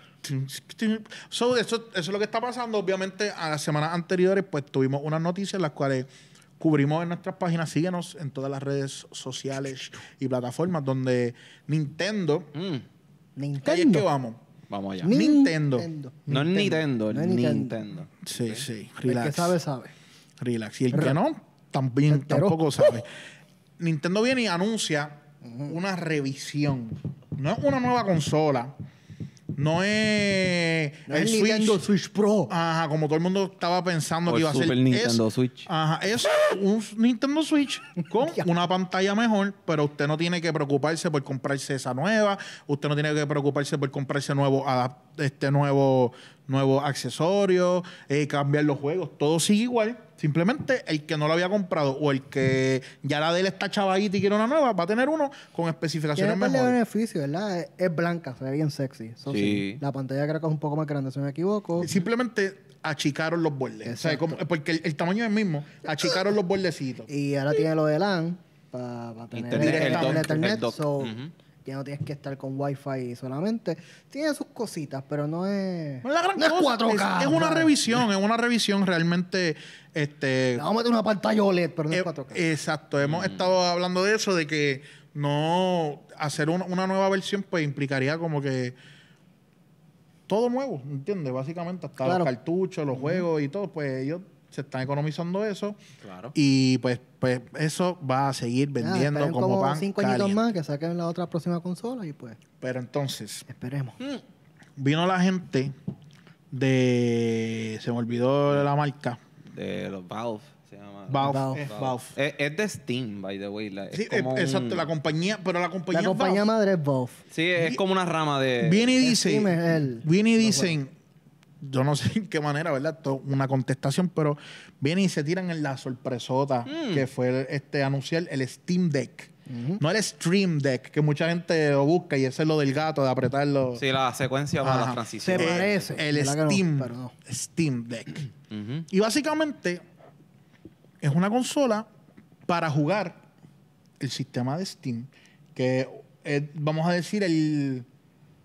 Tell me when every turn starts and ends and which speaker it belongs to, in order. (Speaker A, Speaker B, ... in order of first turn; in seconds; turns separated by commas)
Speaker A: 0.2-12.5, Speaker B: 12.5-12.8, Speaker C: 13.3-14.1, Speaker A: 13.6-14.4, Speaker B: 14.7-15.1, Speaker C: 15.0-17.8, Speaker A: 15.1-16.7, Speaker B: 16.3-18.6, Speaker A: 18.2-19.6, Speaker C: 19.1-19.9, Speaker A: 20.4-23.1, Speaker C: 20.9-21.2, Speaker C: 22.1-22.6, Speaker A: 23.8-28.7, Speaker C: 25.4-25.7, Speaker A: 29.5-31.8, Speaker C: 31.1-32.5, Speaker A: 32.5-56.8, Speaker B: 34.2-35.7, Speaker C: 56.1-61.9, Speaker B: 59.3-59.8, Speaker A: 61.8-67.1, Speaker C: 63.8-64.4, Speaker C: 67.1-77.7, Speaker B: 69.3-71.3, Speaker A: 69.5-70.4, Speaker A: 76.0-80.6, Speaker C: 80.5-82.4, Speaker A: 81.9-88.7, Speaker B: 83.0-83.5, Speaker A: 90.3-95.8, Speaker C: 92.0-92.3, Speaker C: 92.9-93.2, Speaker B: 96.0-96.3, Speaker A: 96.3-100.5, Speaker C: 98.8-102.4, Speaker A: 102.6-103.5, Speaker C: 103.5-104.0, Speaker A: 104.8-105.7, Speaker A: 106.5-109.2, Speaker B: 109.5-114.9, Speaker A: 111.1-112.1, Speaker C: 111.2-111.7, Speaker A: 113.9-116.4, Speaker C: 115.9-117.2, Speaker B: 117.3-118.9, Speaker A: 118.6-120.9, Speaker C: 119.0-120.8, Speaker A: 121.6-133.8, Speaker B: 126.7-127.0, Speaker C: 129.5-129.8, Speaker B: 133.8-135.8, Speaker A: 134.6-138.3, Speaker C: 135.2-137.1, Speaker B: 138.5-138.8, Speaker A: 138.9-139.8, Speaker A: 141.0-141.9, Speaker A: 142.5-143.2, Speaker A: 144.0-147.8